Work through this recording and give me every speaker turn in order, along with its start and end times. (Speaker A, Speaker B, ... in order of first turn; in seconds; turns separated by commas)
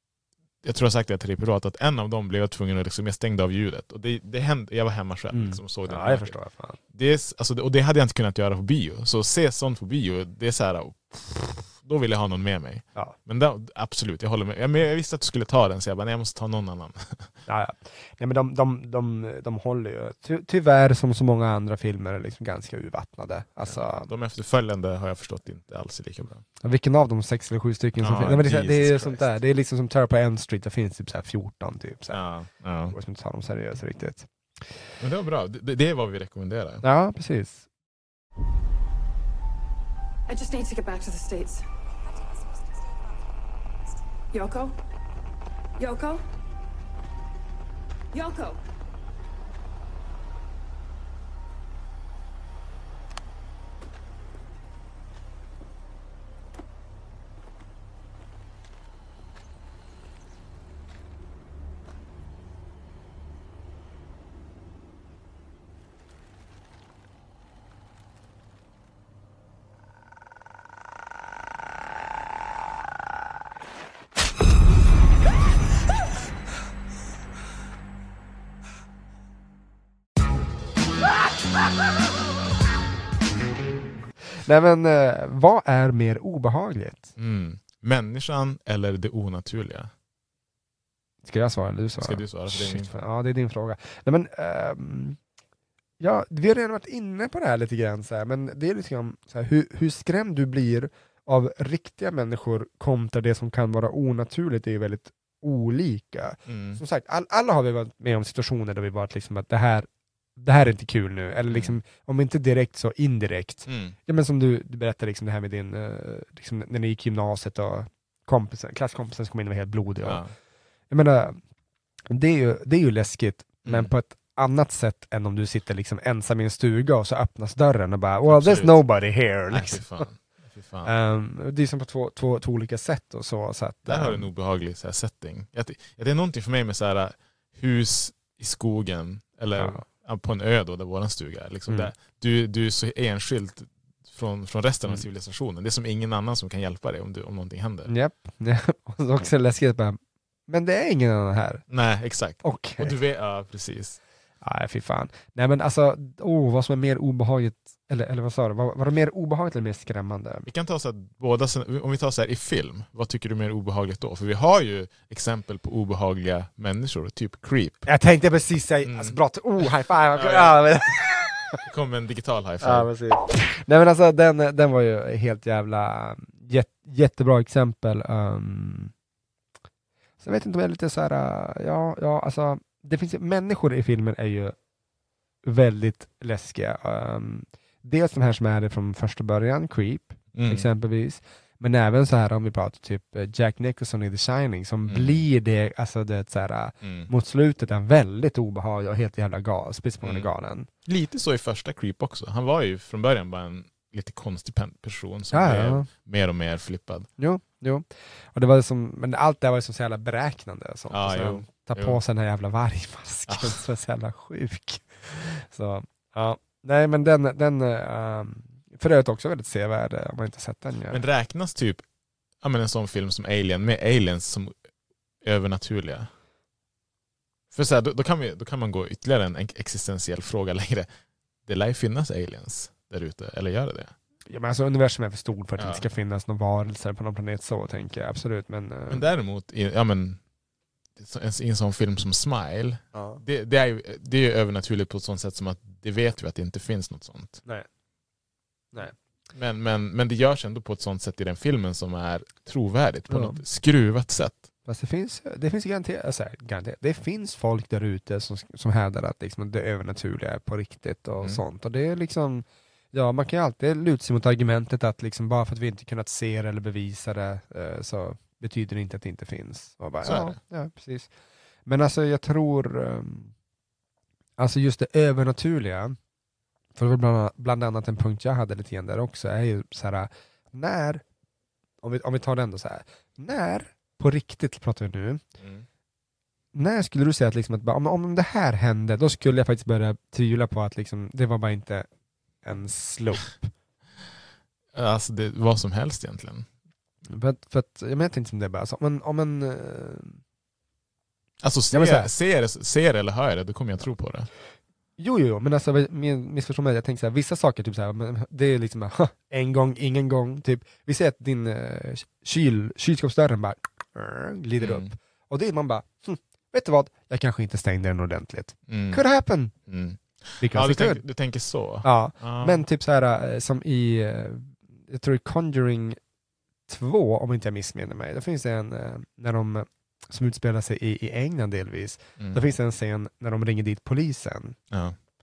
Speaker A: 0.6-6.4, Speaker B: 5.3-6.8, Speaker A: 6.9-17.3, Speaker B: 17.4-24.1, Speaker A: 23.6-26.4, Speaker B: 26.6-32.2, Speaker A: 28.0-29.3, Speaker A: 32.1-32.9, Speaker B: 32.9-34.3, Speaker A: 35.0-36.8, Speaker B: 36.8-37.6, Speaker C: 40.3-41.7, Speaker C: 44.3-44.7, Speaker C: 45.8-46.2, Speaker C: 48.1-48.6, Speaker B: 84.4-87.1, Speaker A: 87.2-89.9, Speaker B: 91.2-95.2, Speaker A: 92.0-93.0, Speaker B: 96.0-120.2, Speaker A: 106.5-106.8, Speaker A: 111.5-111.8, Speaker A: 113.7-114.0, Speaker A: 120.0-120.3, Speaker B: 120.9-121.4, Speaker B: 122.1-130.1, Speaker A: 123.6-123.9, Speaker A: 128.2-130.9, Speaker B: 130.8-134.3, Speaker A: 133.8-147.9, Speaker B: 139.5-139.8, Speaker B: 147.9-151.6, Speaker A: 151.7-154.0, Speaker B: 152.4-153.0, Speaker B: 154.4-160.5, Speaker A: 160.4-167.9, Speaker B: 167.8-171.6, Speaker A: 168.8-169.2, Speaker A: 170.1-170.6, Speaker A: 171.6-172.9, Speaker B: 172.6-178.9, Speaker B: 180.2-184.5, Speaker B: 185.4-200.7, Speaker A: 190.3-190.7, Speaker A: 194.8-195.2, Speaker A: 196.8-197.1, Speaker A: 200.0-200.3, Speaker A: 200.8-207.1, Speaker B: 205.3-205.9, Speaker B: 207.2-221.0, Speaker A: 210.9-212.0, Speaker A: 213.3-213.6, Speaker A: 220.9-221.8, Speaker A: 222.4-224.6, Speaker A: 225.2-226.1, Speaker A: 227.5-230.9, Speaker A: 231.4-233.9, Speaker B: 234.3-239.1, Speaker A: 235.6-235.8, Speaker A: 238.9-240.2, Speaker A: 240.9-247.4, Speaker B: 242.9-243.2, Speaker A: 249.3-254.5, Speaker B: 253.1-253.4, Speaker B: 254.7-271.1, Speaker A: 270.0-270.4, Speaker B: 271.6-273.3, Speaker B: 274.4-276.0, Speaker B: 276.7-281.0, Speaker B: 281.8-285.2, Speaker A: 285.4-285.6, Speaker B: 286.5-291.9, Speaker B: 292.4-293.5, Speaker A: 294.7-296.5, Speaker B: 297.1-300.2, Speaker A: 301.4-304.3, Speaker B: 301.7-302.1, Speaker B: 305.0-319.5, Speaker A: 314.6-314.9, Speaker A: 318.7-319.0, Speaker A: 319.6-322.6, Speaker B: 320.4-321.0, Speaker B: 321.8-326.0, Speaker B: 326.7-334.6, Speaker A: 332.2-332.4, Speaker A: 334.7-334.9